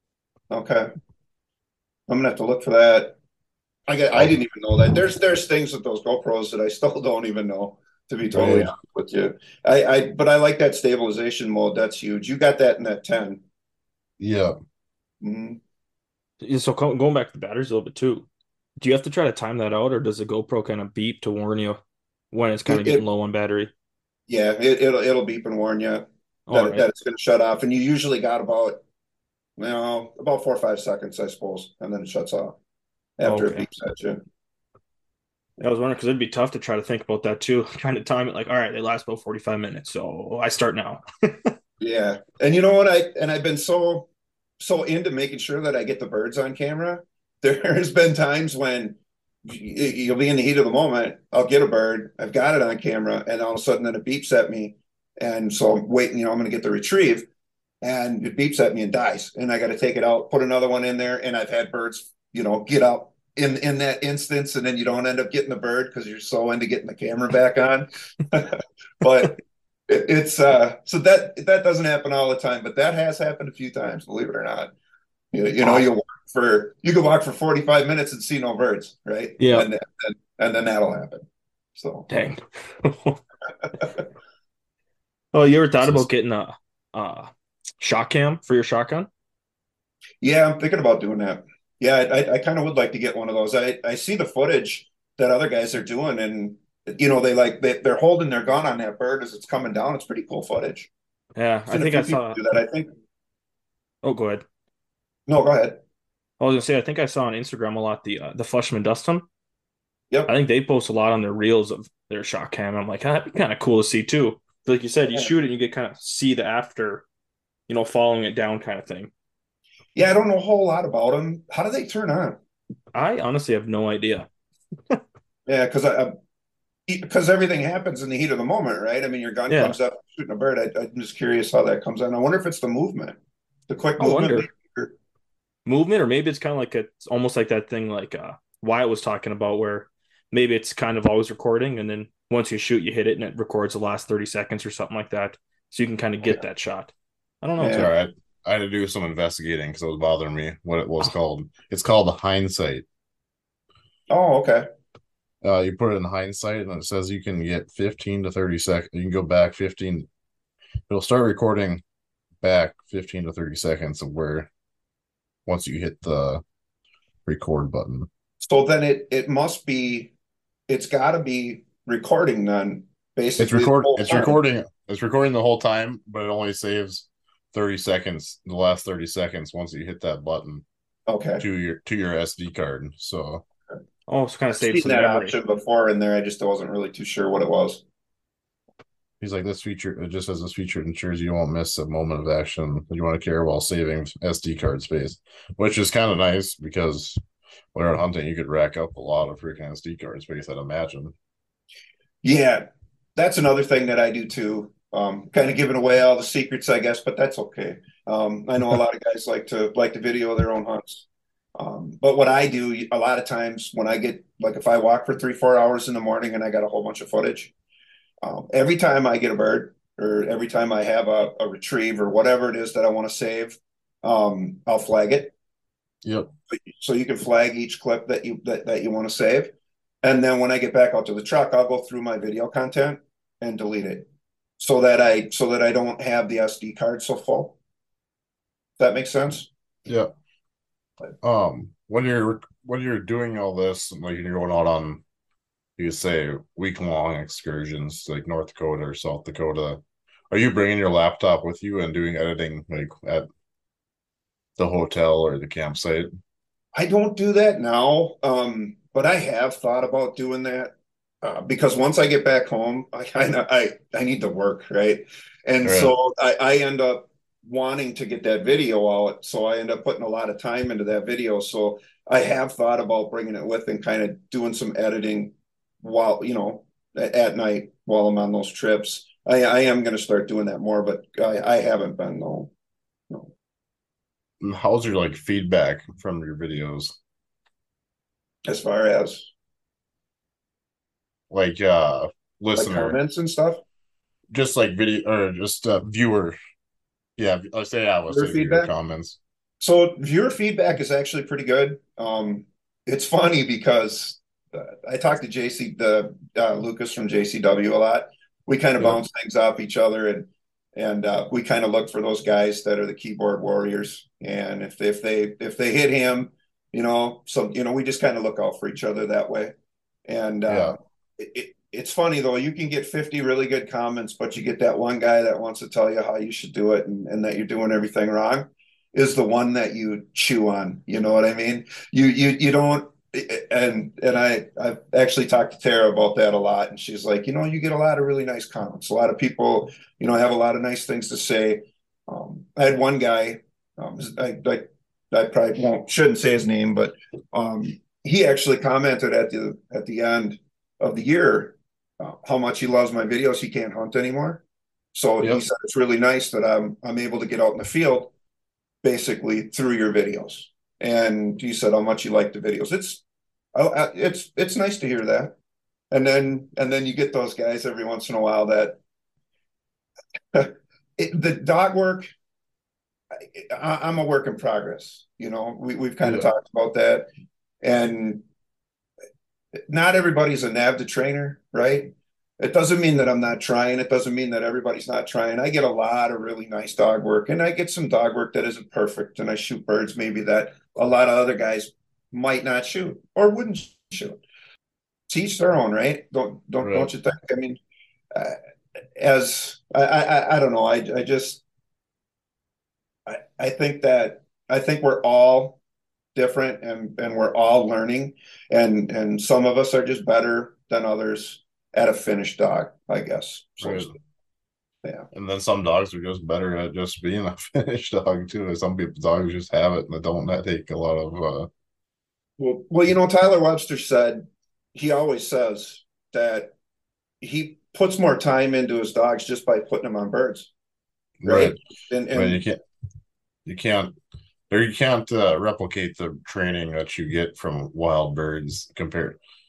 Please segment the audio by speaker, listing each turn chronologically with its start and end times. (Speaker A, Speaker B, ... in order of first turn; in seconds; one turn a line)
Speaker A: 0.5-0.9
Speaker A: 2.1-3.2
Speaker A: 3.9-13.4
Speaker B: 8.3-8.7
Speaker B: 14.2-14.6
Speaker A: 15.2-15.6
Speaker C: 16.4-18.3
Speaker C: 18.8-21.8
Speaker C: 22.3-23.7
Speaker A: 22.7-23.0
Speaker A: 24.3-28.8
Speaker C: 26.5-26.9
Speaker A: 29.6-32.6
Speaker A: 33.2-34.2
Speaker C: 33.2-33.6
Speaker C: 35.6-41.5
Speaker A: 41.8-44.1
Speaker A: 44.6-57.3
Speaker A: 57.8-69.4
Speaker A: 69.9-74.7
Speaker A: 75.3-81.2
Speaker C: 79.4-79.7
Speaker A: 81.8-82.1
Speaker C: 82.1-83.2
Speaker C: 85.3-89.1
Speaker B: 85.8-86.1
Speaker A: 90.2-100.9
Speaker C: 101.3-102.4
Speaker A: 101.7-102.9
Speaker C: 104.0-104.4
Speaker A: 105.3-105.8
Speaker C: 106.4-109.2
Speaker C: 110.3-117.0
Speaker C: 117.7-119.1
Speaker A: 119.9-122.4
Speaker C: 122.9-124.3
Speaker A: 125.5-126.1
Speaker A: 126.9-133.2
Speaker C: 129.5-129.8
Speaker A: 133.7-134.9
Speaker C: 134.0-134.5
Speaker C: 135.7-147.9
Speaker A: 147.6-147.9
Speaker B: 147.7-152.8
Speaker A: 154.1-154.7
Speaker B: 155.4-160.1
Speaker B: 160.9-161.8
Speaker B: 162.4-164.5
Speaker B: 165.4-166.4
Speaker B: 167.2-168.1
Speaker A: 168.4-170.1
Speaker A: 170.7-174.3
Speaker B: 173.4-180.6
Speaker A: 181.1-181.4
Speaker B: 181.4-183.4
Speaker C: 184.1-185.3
Speaker A: 184.5-187.8
Speaker B: 189.2-197.2
Speaker B: 197.7-201.1
Speaker A: 202.2-211.1
Speaker A: 211.6-217.5
Speaker A: 218.2-225.3
Speaker A: 226.5-229.5
Speaker A: 230.0-234.1
Speaker A: 234.6-237.6
Speaker A: 238.8-239.5
Speaker B: 241.2-245.0
Speaker B: 245.8-253.3
Speaker B: 254.6-256.1
Speaker A: 256.8-282.5
Speaker B: 265.6-265.9
Speaker B: 284.4-287.0
Speaker A: 288.5-289.3
Speaker B: 291.3-293.0
Speaker A: 292.6-293.6
Speaker B: 294.3-296.4
Speaker B: 297.2-299.2
Speaker A: 298.1-298.7
Speaker A: 299.6-319.5
Speaker A: 320.1-354.4
Speaker B: 320.5-320.7
Speaker A: 354.9-358.1
Speaker A: 358.8-363.0
Speaker A: 363.5-365.4
Speaker A: 365.9-368.8
Speaker A: 370.3-372.1
Speaker A: 373.1-377.1
Speaker B: 376.0-376.3
Speaker A: 377.6-378.2
Speaker A: 379.7-394.2
Speaker A: 395.1-397.6
Speaker B: 396.6-396.9
Speaker A: 398.1-398.4
Speaker A: 398.9-401.4
Speaker A: 403.1-405.6
Speaker A: 406.1-413.9
Speaker B: 413.6-413.9
Speaker B: 415.1-421.5
Speaker A: 422.4-426.5
Speaker A: 427.2-430.5
Speaker B: 431.2-431.6
Speaker A: 431.2-432.4
Speaker B: 432.1-432.6
Speaker B: 433.4-433.9
Speaker B: 434.5-439.2